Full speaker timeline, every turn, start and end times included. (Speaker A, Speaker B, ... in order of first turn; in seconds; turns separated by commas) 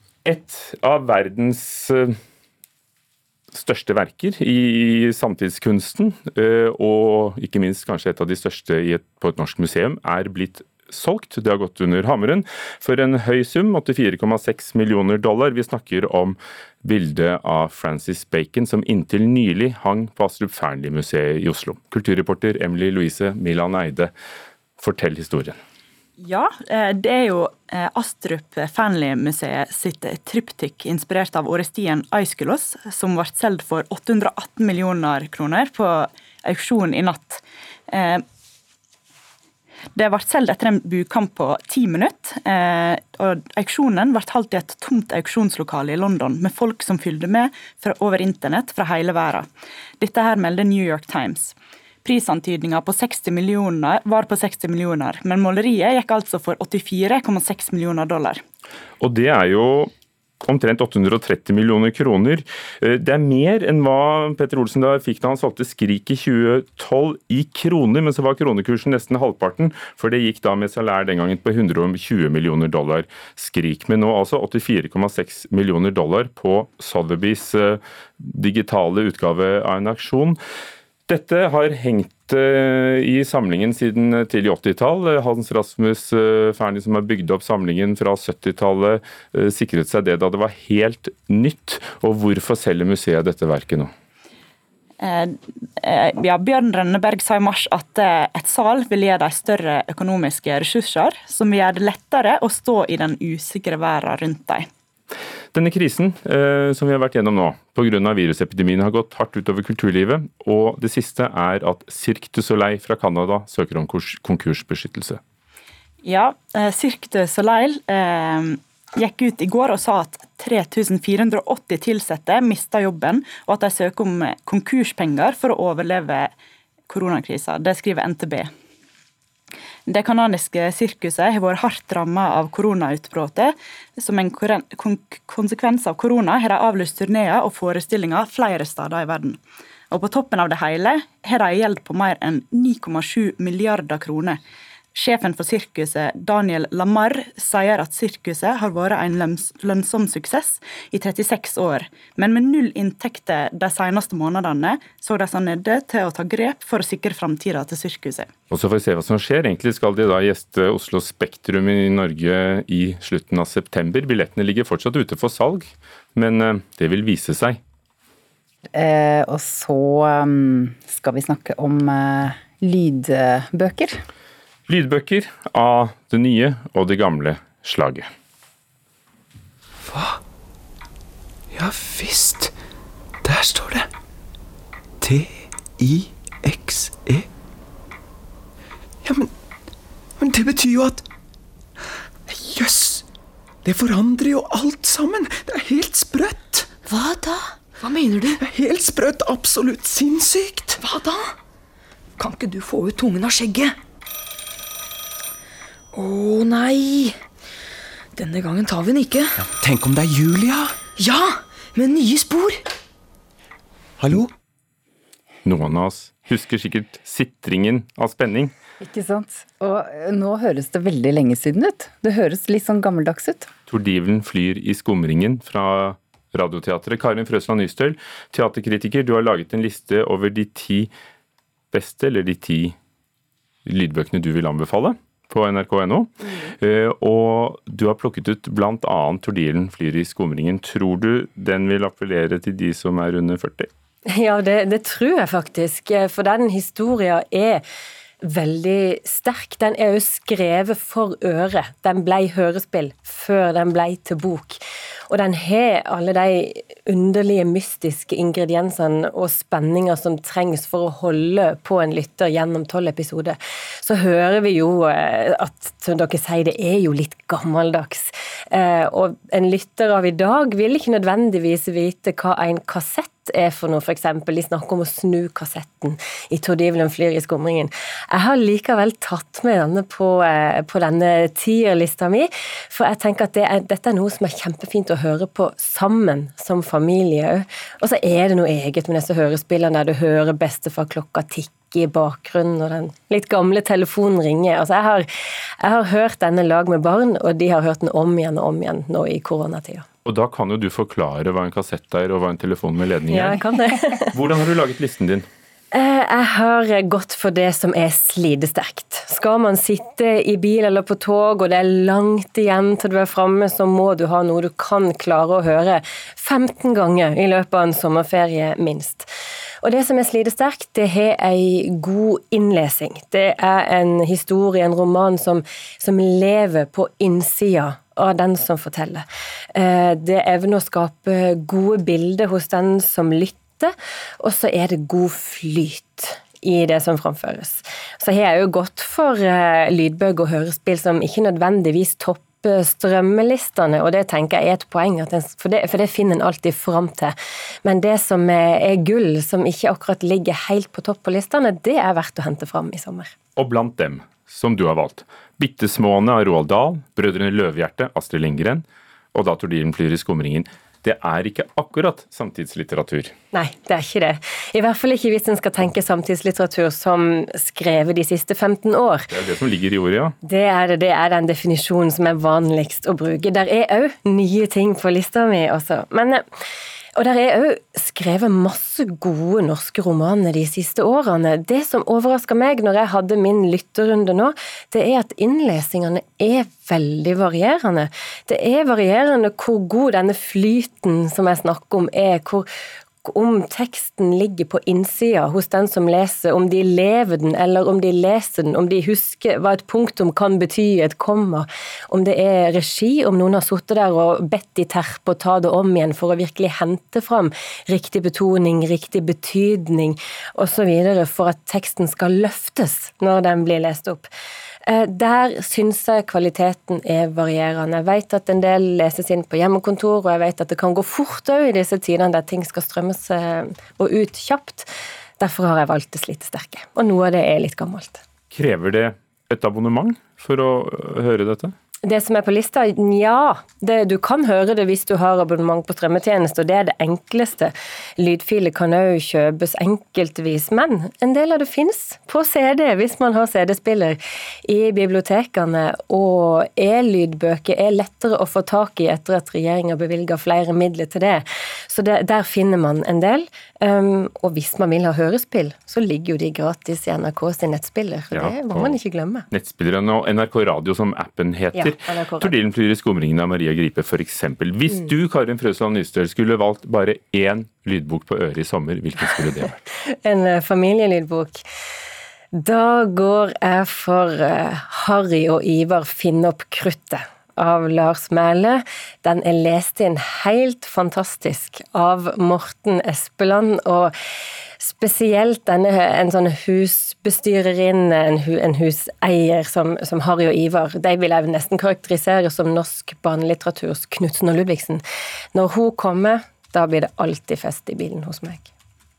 Speaker A: 0.2-2.1, Speaker A: 3.5-24.1, Speaker A: 24.8-25.6, Speaker B: 26.2-38.2, Speaker B: 39.9-49.5, Speaker B: 50.0-58.4, Speaker A: 59.0-59.9, Speaker A: 60.4-80.4, Speaker A: 81.1-93.9, Speaker B: 95.0-104.7, Speaker A: 105.5-115.2, Speaker B: 116.0-126.3, Speaker B: 126.9-128.5, Speaker B: 129.9-139.4, Speaker B: 139.9-144.4, Speaker B: 144.9-158.3, Speaker A: 158.5-167.6, Speaker C: 168.7-174.0, Speaker A: 174.7-178.1, Speaker D: 179.9-180.2, Speaker D: 181.5-182.5, Speaker D: 183.2-183.9, Speaker D: 185.0-187.3, Speaker D: 189.0-189.3, Speaker D: 190.2-191.0, Speaker D: 192.3-193.0, Speaker D: 193.6-196.7, Speaker E: 196.9-198.4, Speaker D: 198.4-200.8, Speaker E: 200.8-201.3, Speaker E: 202.2-203.7, Speaker E: 205.9-207.2, Speaker E: 208.2-209.3, Speaker D: 209.4-210.8, Speaker E: 211.0-212.6, Speaker D: 214.0-214.3, Speaker A: 215.4-218.5, Speaker C: 218.8-223.5, Speaker A: 223.7-230.9, Speaker A: 231.7-232.8, Speaker A: 233.6-243.7, Speaker F: 244.1-247.6, Speaker F: 248.2-295.1, Speaker F: 295.6-299.8, Speaker A: 300.0-303.4, Speaker F: 303.1-304.1, Speaker A: 304.1-305.2, Speaker F: 305.7-319.1, Speaker F: 319.6-347.1, Speaker F: 347.6-353.1, Speaker A: 353.4-363.1, Speaker F: 363.3-369.1, Speaker A: 369.1-370.1, Speaker F: 370.2-376.2, Speaker F: 376.9-392.5, Speaker F: 393.0-414.1, Speaker F: 414.6-424.7, Speaker F: 425.2-428.0, Speaker A: 428.3-431.5, Speaker F: 431.8-459.3, Speaker A: 458.1-458.8, Speaker A: 459.3-469.6, Speaker F: 461.5-462.3, Speaker F: 469.8-471.4, Speaker F: 472.3-483.9, Speaker F: 484.6-494.8, Speaker F: 495.3-498.5